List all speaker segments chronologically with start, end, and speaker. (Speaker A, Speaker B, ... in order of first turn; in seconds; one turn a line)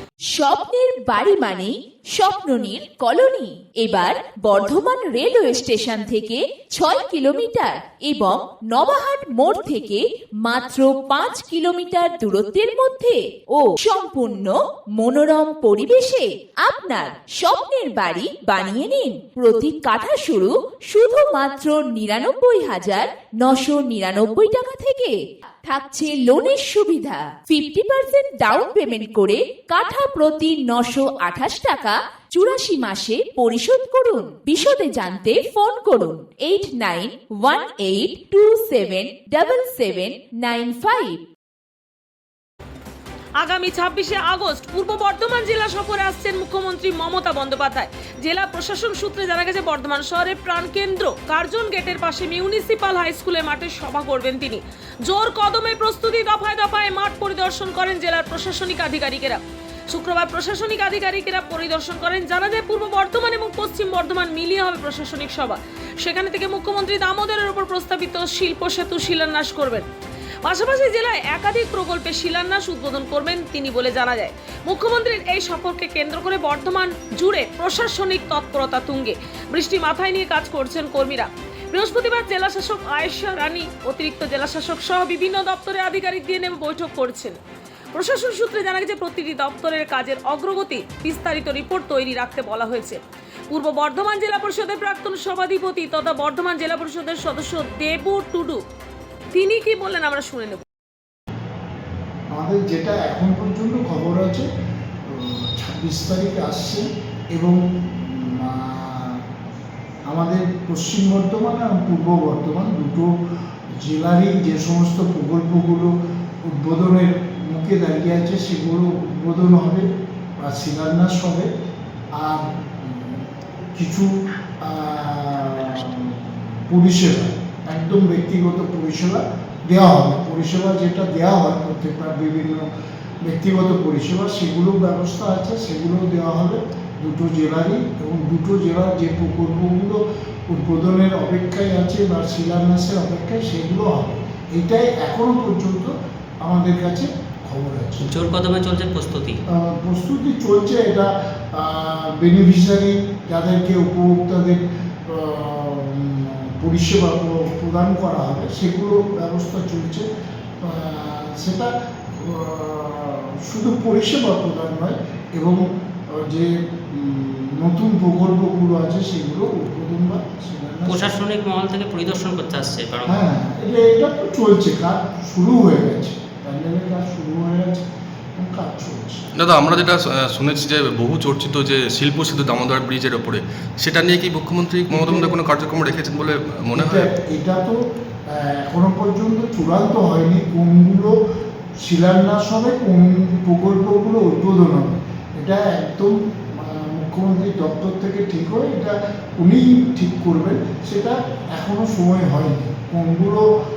Speaker A: 0.3-41.2
Speaker B: 43.4-69.9
Speaker B: 70.4-87.4
Speaker B: 87.9-93.0
Speaker B: 93.5-98.6
Speaker B: 99.3-100.6
Speaker C: 102.3-104.5
Speaker C: 105.1-109.2
Speaker C: 110.1-113.1
Speaker C: 113.8-115.9
Speaker C: 116.4-119.8
Speaker C: 120.4-121.5
Speaker C: 122.2-124.1
Speaker C: 124.6-132.6
Speaker C: 133.2-145.9
Speaker C: 146.4-148.1
Speaker D: 148.0-149.4
Speaker C: 149.5-160.1
Speaker C: 160.6-171.2
Speaker D: 170.8-173.2
Speaker C: 173.0-177.8
Speaker C: 178.4-179.3
Speaker E: 179.3-187.1
Speaker C: 184.9-185.4
Speaker C: 186.7-187.8
Speaker C: 188.3-191.1
Speaker C: 191.8-203.4